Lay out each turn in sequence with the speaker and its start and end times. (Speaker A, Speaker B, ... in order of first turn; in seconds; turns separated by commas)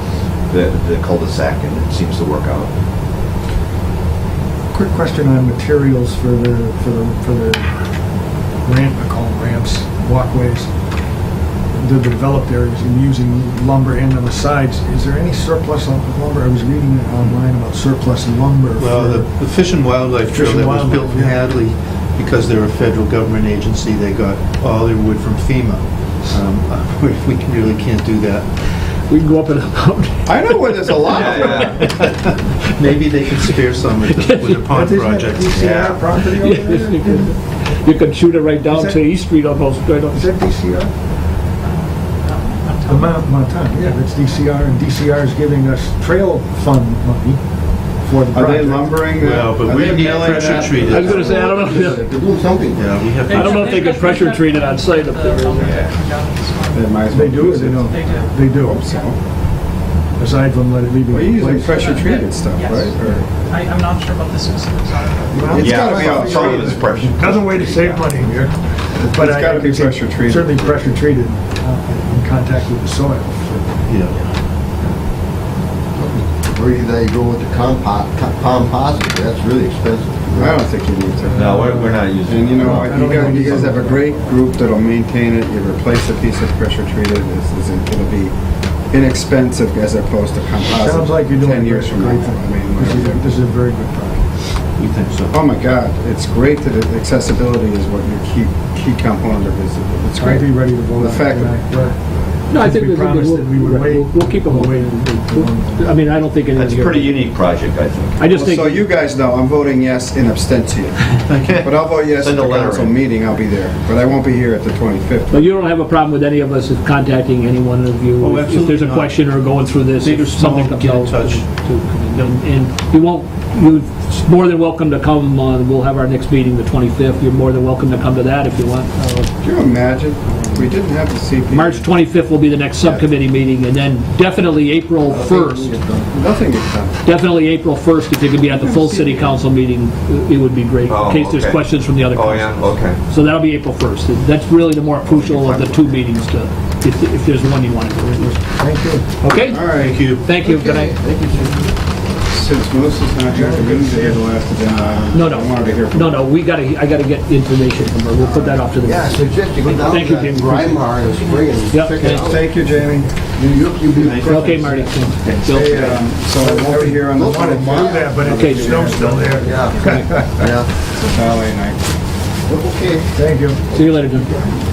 Speaker A: 0.5-2.7, Speaker B: 4.7-7.8, Speaker B: 8.6-10.7, Speaker B: 11.7-19.3, Speaker C: 18.8-28.5, Speaker B: 20.2-21.4, Speaker D: 29.1-31.9, Speaker E: 30.2-31.8, Speaker A: 31.1-31.7, Speaker C: 31.5-35.9, Speaker D: 34.1-34.7, Speaker B: 34.7-37.4, Speaker A: 35.5-36.1, Speaker D: 36.3-40.3, Speaker B: 38.6-39.1, Speaker B: 40.1-40.9, Speaker F: 41.6-44.5, Speaker B: 42.9-47.4, Speaker B: 48.0-49.1, Speaker E: 48.3-51.5, Speaker C: 49.1-51.3, Speaker D: 50.9-52.1, Speaker G: 51.0-53.0, Speaker C: 52.7-54.0, Speaker F: 53.3-57.1, Speaker D: 53.3-55.6, Speaker A: 55.6-55.9, Speaker E: 56.7-59.2, Speaker B: 57.1-58.9, Speaker F: 57.9-59.1, Speaker B: 60.2-61.8, Speaker E: 61.1-63.3, Speaker F: 61.7-65.8, Speaker B: 65.3-73.8, Speaker E: 65.5-66.8, Speaker A: 65.6-68.1, Speaker E: 69.0-71.0, Speaker C: 73.8-74.2, Speaker G: 76.0-80.6, Speaker E: 80.3-81.7, Speaker A: 81.3-83.5, Speaker B: 81.3-82.0, Speaker E: 82.2-88.3, Speaker B: 82.6-84.3, Speaker E: 88.9-93.3, Speaker B: 90.7-94.3, Speaker C: 94.8-95.4, Speaker E: 95.3-102.2, Speaker B: 100.2-106.2, Speaker D: 102.5-107.3, Speaker A: 106.5-108.2, Speaker D: 108.2-108.9, Speaker E: 108.3-115.5, Speaker C: 111.3-111.7, Speaker A: 112.1-113.0, Speaker D: 115.3-129.3, Speaker C: 118.2-121.5, Speaker E: 129.4-131.8, Speaker D: 131.5-135.8, Speaker G: 135.1-136.1, Speaker E: 136.1-136.9, Speaker D: 137.0-148.3, Speaker E: 138.5-139.3, Speaker A: 140.8-143.0, Speaker A: 145.4-145.8, Speaker B: 148.0-149.2, Speaker D: 149.2-150.9, Speaker C: 149.3-150.3, Speaker E: 149.5-150.1, Speaker G: 150.3-151.7, Speaker E: 152.3-156.2, Speaker B: 153.3-154.1, Speaker D: 155.1-160.9, Speaker G: 158.1-162.5, Speaker F: 160.9-161.7, Speaker D: 161.7-162.3, Speaker E: 162.2-163.1, Speaker G: 163.3-164.8, Speaker C: 163.9-165.4, Speaker D: 164.2-166.2, Speaker E: 165.4-169.5, Speaker B: 166.2-170.4, Speaker G: 167.2-168.2, Speaker D: 168.3-168.8, Speaker G: 169.4-169.8, Speaker F: 169.6-171.4, Speaker G: 170.4-170.7, Speaker E: 171.0-171.8, Speaker G: 172.4-173.1, Speaker B: 173.1-173.7, Speaker D: 173.7-174.4